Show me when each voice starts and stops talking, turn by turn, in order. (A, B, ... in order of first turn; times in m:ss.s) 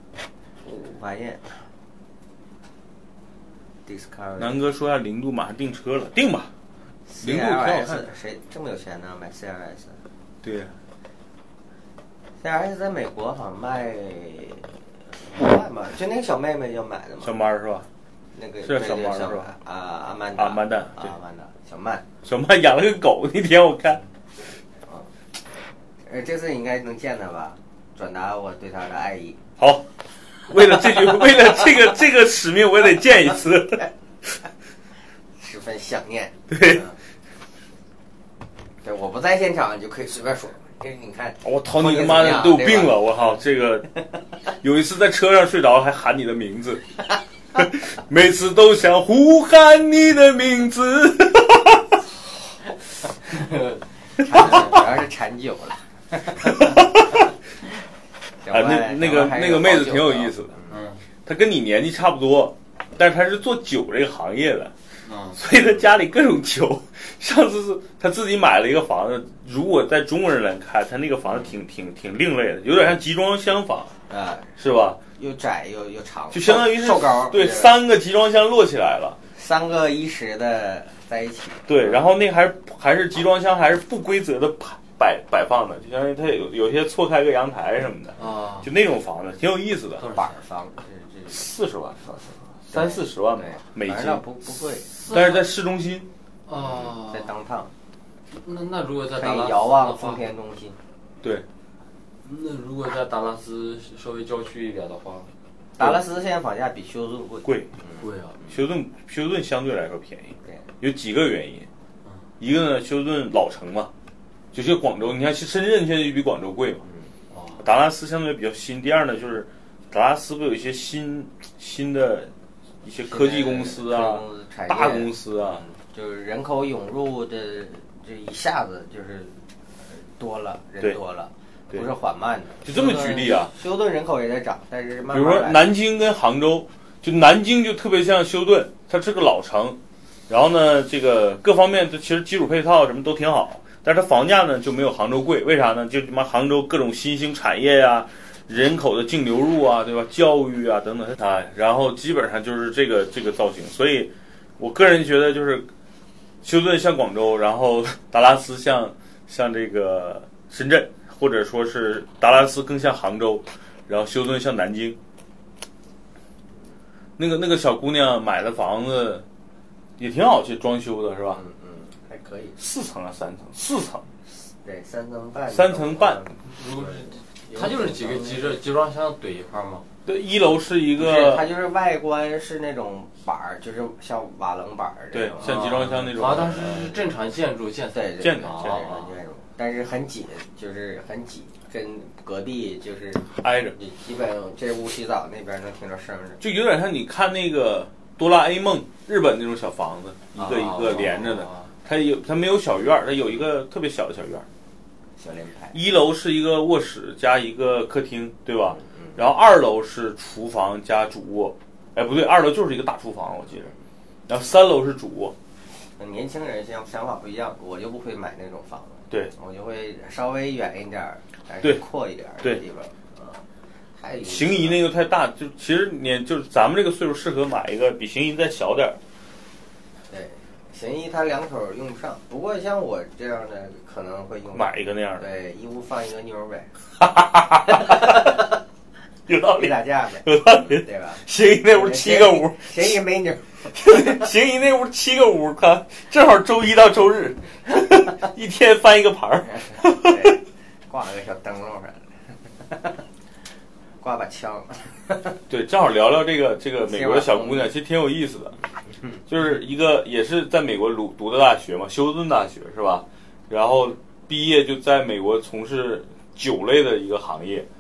0:00.6-0:01.6 A
0:03.9-0:04.6 A
0:04.4-0:06.5 B
0:07.1-0:10.0 A
0:07.2-0:08.1 B
0:10.4-0:10.7 B
0:12.4-0:17.3 A
0:17.2-0:17.9 B
0:18.3-0:22.0 A
0:18.6-0:19.5 B
0:20.4-0:21.0 B
0:22.2-0:24.0 B
0:24.8-0:25.1 A
0:26.0-0:29.4 A
0:29.6-0:33.9 B
0:35.4-0:37.0 A
0:36.5-0:36.8 B
0:38.8-0:43.4 A
0:41.4-0:46.8 B
0:47.6-0:52.0 B
0:53.2-0:53.8 C
0:54.2-0:57.0 A
0:56.7-0:57.0 B
0:58.4-1:00.9 A
0:58.5-1:00.6 B
1:00.7-1:01.0 C
1:01.2-1:04.7 B
1:05.0-1:05.4 C
1:05.3-1:13.9 B
1:14.1-1:14.5 A
1:14.6-1:15.0 B
1:15.2-1:17.8 A
1:16.3-1:19.2 B
1:19.3-1:22.1 A
1:21.7-1:30.1 B
1:28.2-1:28.7 C
1:30.0-1:30.4 C
1:30.1-1:31.5 A
1:31.3-1:34.2 B
1:32.7-1:34.9 A
1:35.0-1:35.4 C
1:35.0-1:36.1 B
1:36.5-1:37.3 C
1:36.5-1:37.7 A
1:38.3-1:40.2 C
1:39.2-1:40.8 A
1:42.2-1:45.3 C
1:45.8-1:48.5 A
1:48.0-1:48.4 C
1:48.5-1:51.7 B
1:52.4-1:53.9 B
1:54.5-1:56.8 B
1:57.3-1:57.6 C
1:57.6-2:02.3 B
2:02.8-2:05.6 B
2:03.1-2:15.7 A
2:12.6-2:13.5 B
2:15.1-2:19.8 B
2:20.3-2:35.7 B
2:36.4-2:45.0 B
2:47.2-2:49.2 B
2:50.0-2:51.4 B
2:51.3-2:52.6 A
2:52.6-2:54.1 B
2:54.3-2:58.6 A
2:55.5-2:56.2 B
2:56.4-2:59.8 C
3:00.1-3:01.5 B
3:01.0-3:07.1 A
3:05.1-3:06.9 B
3:05.4-3:09.1 C
3:07.9-3:16.4 A
3:08.2-3:08.8 B
3:13.3-3:13.8 B
3:16.4-3:24.5 B
3:20.4-3:21.7 C
3:25.2-3:25.8 A
3:25.7-3:33.7 B
3:34.3-3:35.3 B
3:35.8-3:43.4 A
3:44.0-3:44.8 A
3:44.2-3:49.0 B
3:50.1-3:56.8 A
3:54.5-3:55.2 B
3:57.0-3:58.4 B
3:57.7-3:58.4 A
3:59.3-4:03.0 B
3:59.5-4:04.2 A
4:03.7-4:10.4 B
4:09.6-4:13.0 A
4:14.0-4:15.4 A
4:15.5-4:18.6 B
4:16.8-4:17.7 A
4:19.3-4:27.7 B